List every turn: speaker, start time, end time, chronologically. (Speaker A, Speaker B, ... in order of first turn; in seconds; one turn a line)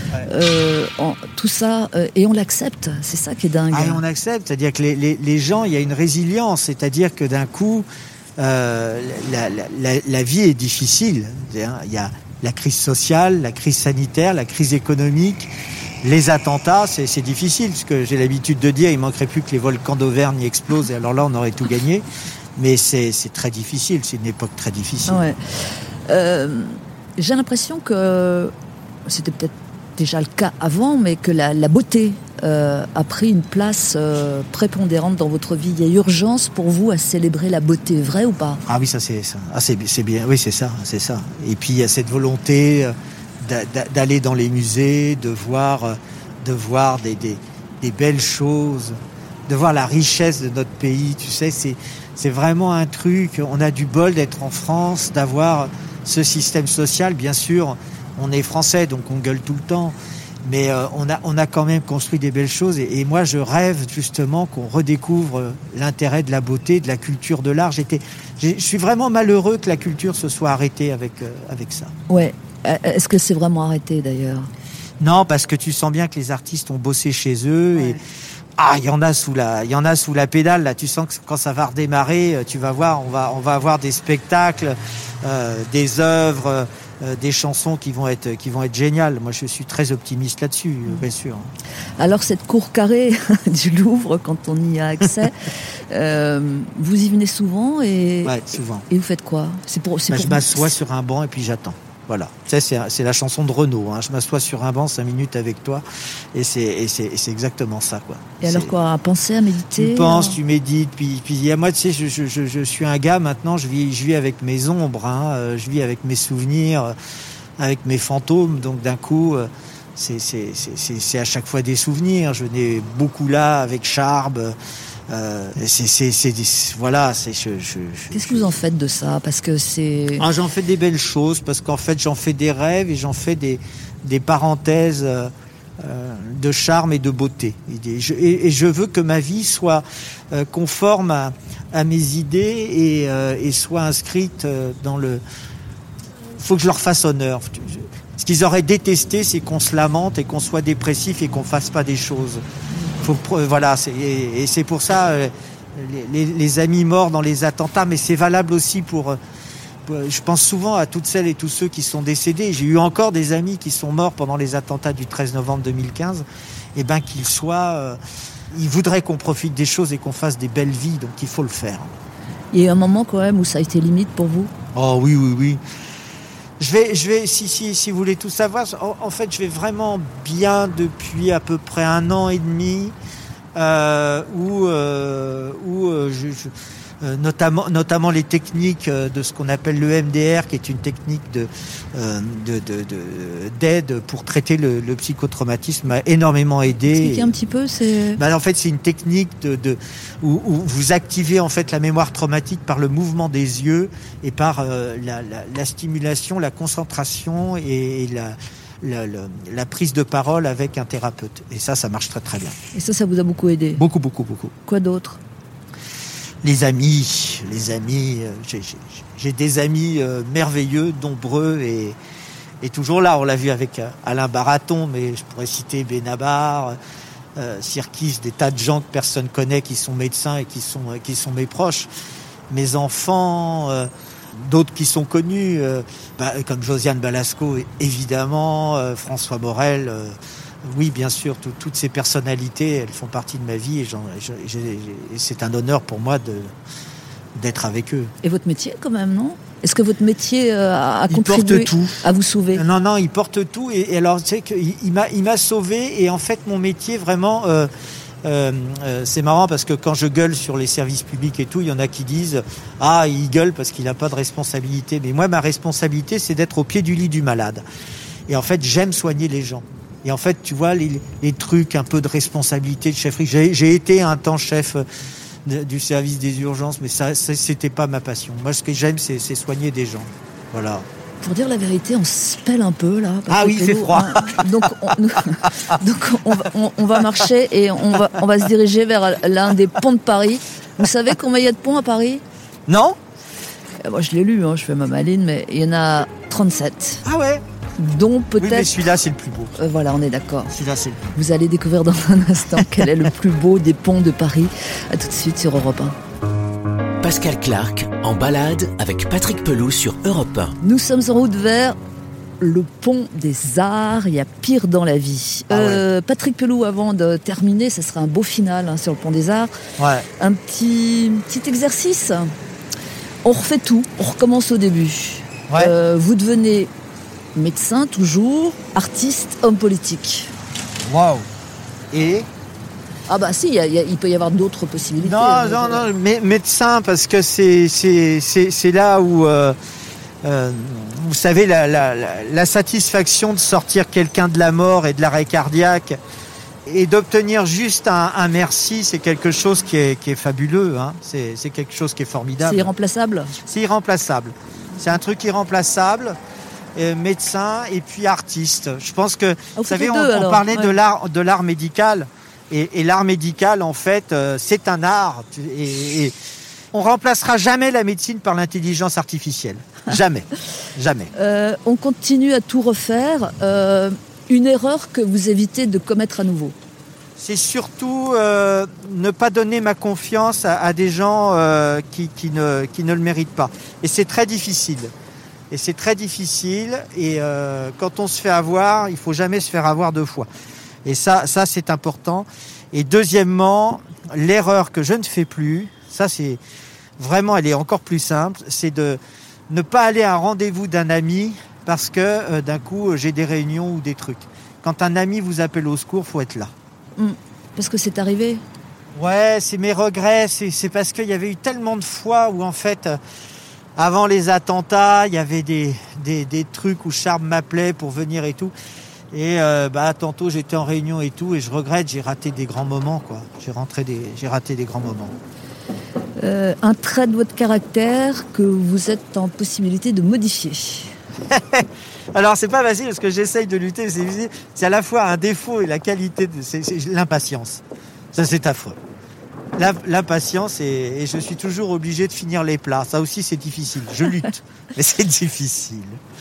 Speaker A: 0.3-4.0
Speaker B: 3.7-7.9
Speaker B: 8.4-15.5
Speaker B: 16.0-25.2
Speaker A: 25.1-28.5
Speaker A: 29.1-38.6
Speaker B: 38.7-71.9
Speaker A: 72.1-74.5
Speaker B: 75.0-78.0
Speaker A: 77.7-78.0
Speaker B: 78.6-91.5
Speaker A: 92.0-98.4
Speaker B: 98.2-98.8
Speaker A: 98.9-100.8
Speaker B: 100.1-108.7
Speaker A: 108.4-110.4
Speaker B: 109.7-116.9
Speaker B: 117.6-124.5
Speaker B: 125.1-128.6
Speaker A: 128.1-130.3
Speaker B: 130.2-145.2
Speaker B: 146.4-152.4
Speaker B: 152.9-159.2
Speaker B: 159.9-168.0
Speaker B: 168.5-172.0
Speaker A: 172.5-174.5
Speaker B: 174.7-175.6
Speaker B: 176.6-182.9
Speaker B: 183.6-197.3
Speaker A: 196.7-198.2
Speaker B: 198.2-212.6
Speaker A: 212.7-213.8
Speaker B: 213.8-214.5
Speaker A: 214.6-215.2
Speaker B: 216.4-222.0
Speaker B: 222.6-226.8
Speaker B: 227.4-231.9
Speaker B: 232.5-246.5
Speaker B: 247.3-248.1
Speaker A: 248.2-252.6
Speaker B: 251.1-257.7
Speaker B: 258.2-267.6
Speaker B: 268.3-274.8
Speaker B: 275.4-280.9
Speaker A: 281.2-292.2
Speaker B: 283.3-285.2
Speaker B: 292.7-293.0
Speaker A: 293.8-297.0
Speaker B: 297.1-297.4
Speaker A: 297.8-298.8
Speaker B: 298.4-299.6
Speaker A: 299.6-300.5
Speaker B: 300.5-301.1
Speaker A: 301.1-306.0
Speaker B: 302.6-302.9
Speaker C: 307.0-310.6
Speaker A: 310.6-311.8
Speaker A: 312.4-319.5
Speaker B: 315.5-315.8
Speaker B: 319.8-320.1
Speaker A: 320.2-322.3
Speaker A: 323.2-326.7
Speaker B: 325.5-325.7
Speaker A: 327.3-330.3
Speaker B: 330.9-331.3
Speaker B: 331.9-332.3
Speaker A: 333.1-335.9
Speaker B: 335.0-339.6
Speaker B: 340.2-346.0
Speaker B: 346.6-352.7
Speaker A: 352.4-353.4
Speaker B: 353.4-356.2
Speaker B: 356.7-366.1
Speaker A: 359.6-360.7
Speaker B: 366.7-371.1
Speaker A: 371.1-376.6
Speaker B: 377.2-384.9
Speaker B: 385.5-390.3
Speaker B: 390.8-396.4
Speaker B: 397.0-406.5
Speaker A: 407.0-408.4
Speaker B: 408.9-413.0
Speaker B: 413.8-418.5
Speaker B: 419.1-425.1
Speaker A: 426.2-430.9
Speaker B: 431.3-437.6
Speaker B: 438.1-438.8
Speaker B: 439.6-446.0